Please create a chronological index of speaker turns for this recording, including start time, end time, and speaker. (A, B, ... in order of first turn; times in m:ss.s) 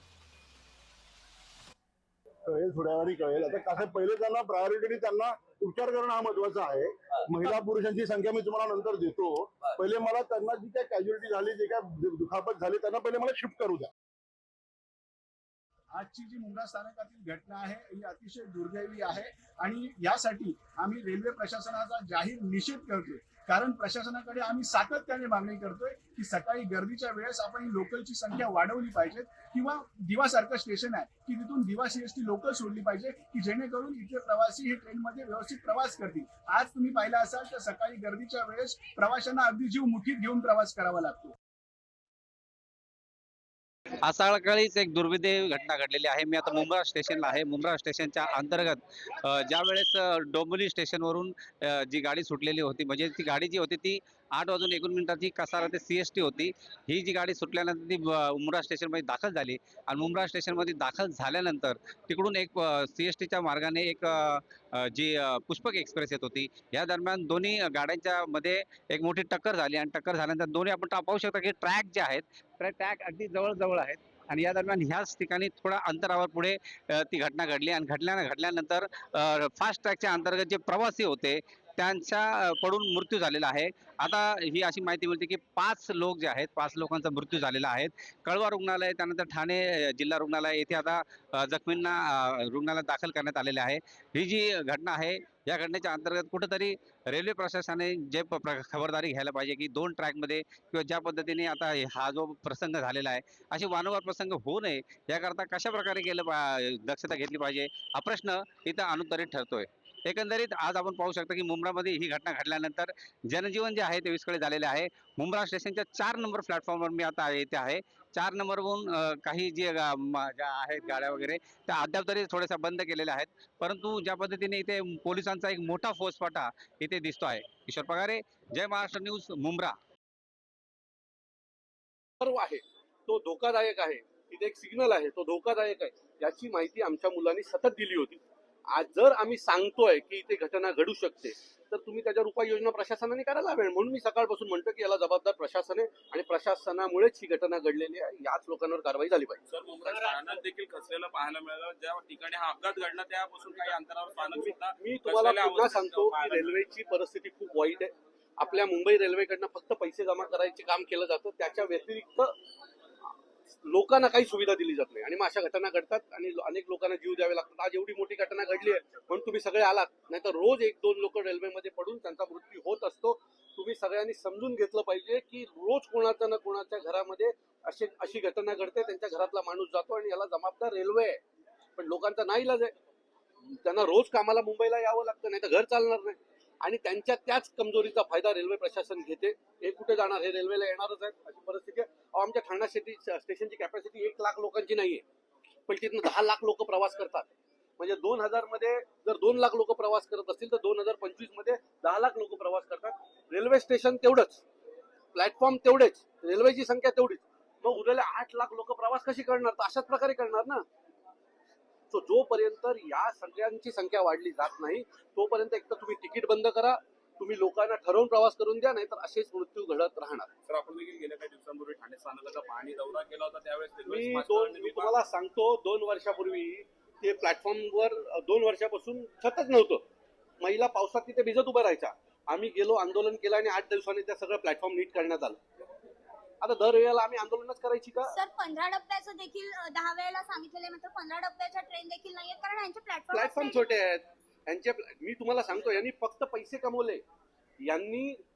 0:02.5-0:13.9 A
0:15.9-0:41.3 B
0:44.0-2:09.8 C
2:12.2-2:29.4 D
2:29.5-2:36.8 E
2:34.2-2:42.3 D
2:43.6-3:01.2 D
3:01.8-3:02.7 D
3:03.5-3:15.0 D
3:15.7-3:24.4 D
3:25.2-3:30.6 D
3:31.9-3:40.3 D
3:40.4-3:45.0 E
3:43.9-3:49.8 D
3:50.4-3:55.4 D
3:56.4-3:58.2 D
3:58.1-4:03.7 F
4:03.1-4:07.0 D
4:07.6-4:08.2 D